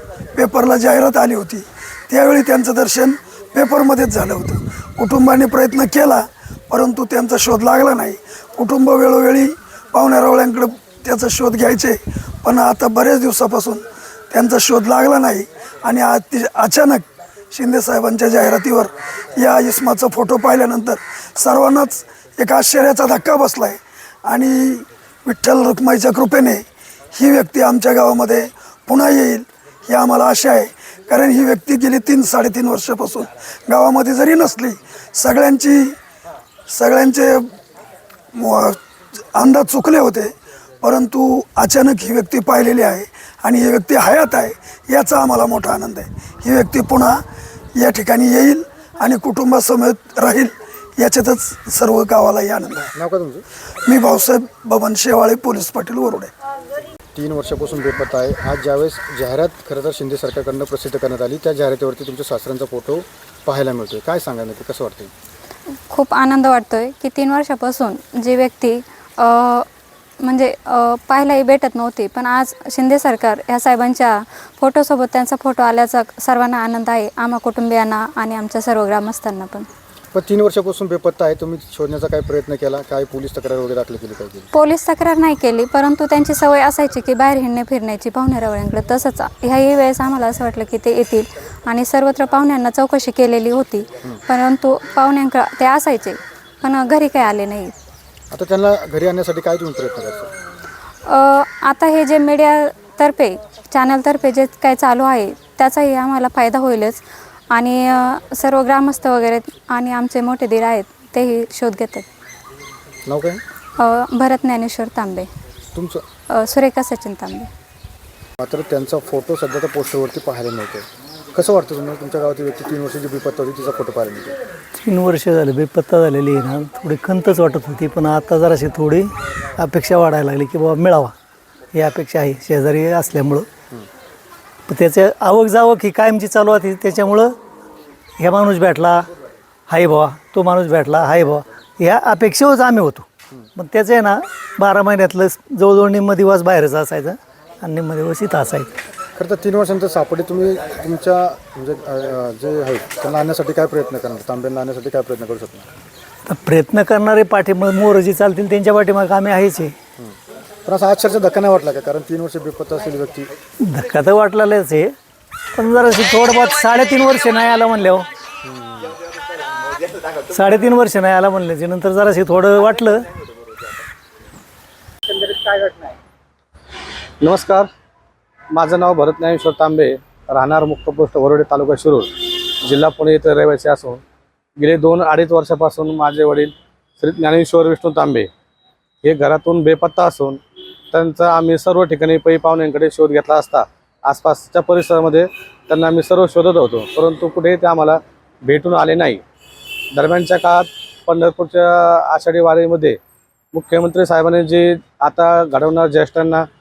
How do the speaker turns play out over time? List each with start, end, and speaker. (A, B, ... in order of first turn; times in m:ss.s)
0:00.4-0:36.0 A
0:36.7-0:37.5 A
0:38.4-0:38.8 A
0:39.3-0:47.2 A
0:47.8-0:52.9 A
0:53.0-0:53.4 B
0:53.8-0:56.3 A
0:57.1-1:05.1 B
1:05.9-1:09.7 C
1:10.2-1:19.7 C
1:20.1-1:24.5 B
1:24.5-1:37.7 C
1:38.3-1:40.3 B
1:41.1-1:52.0 C
1:53.1-1:53.4 B
1:53.8-1:55.3 C
1:55.7-1:56.0 B
1:56.4-1:57.5 C
1:58.4-2:04.4 B
2:04.8-2:11.2 D
2:11.7-2:13.5 D
2:14.7-2:17.4 D
2:18.2-2:19.1 D
2:19.7-2:28.7 D
2:29.2-2:35.7 B
2:36.3-2:39.8 D
2:40.0-2:43.3 B
2:43.6-2:45.0 D
2:45.6-2:48.1 D
2:48.4-2:48.9 B
2:50.3-2:53.1 D
2:55.1-2:55.9 E
2:57.2-2:57.7 E
2:58.6-3:04.0 E
3:04.6-3:08.3 E
3:09.0-3:10.4 E
3:10.9-3:19.2 E
3:20.0-3:23.0 E
3:23.5-3:26.5 E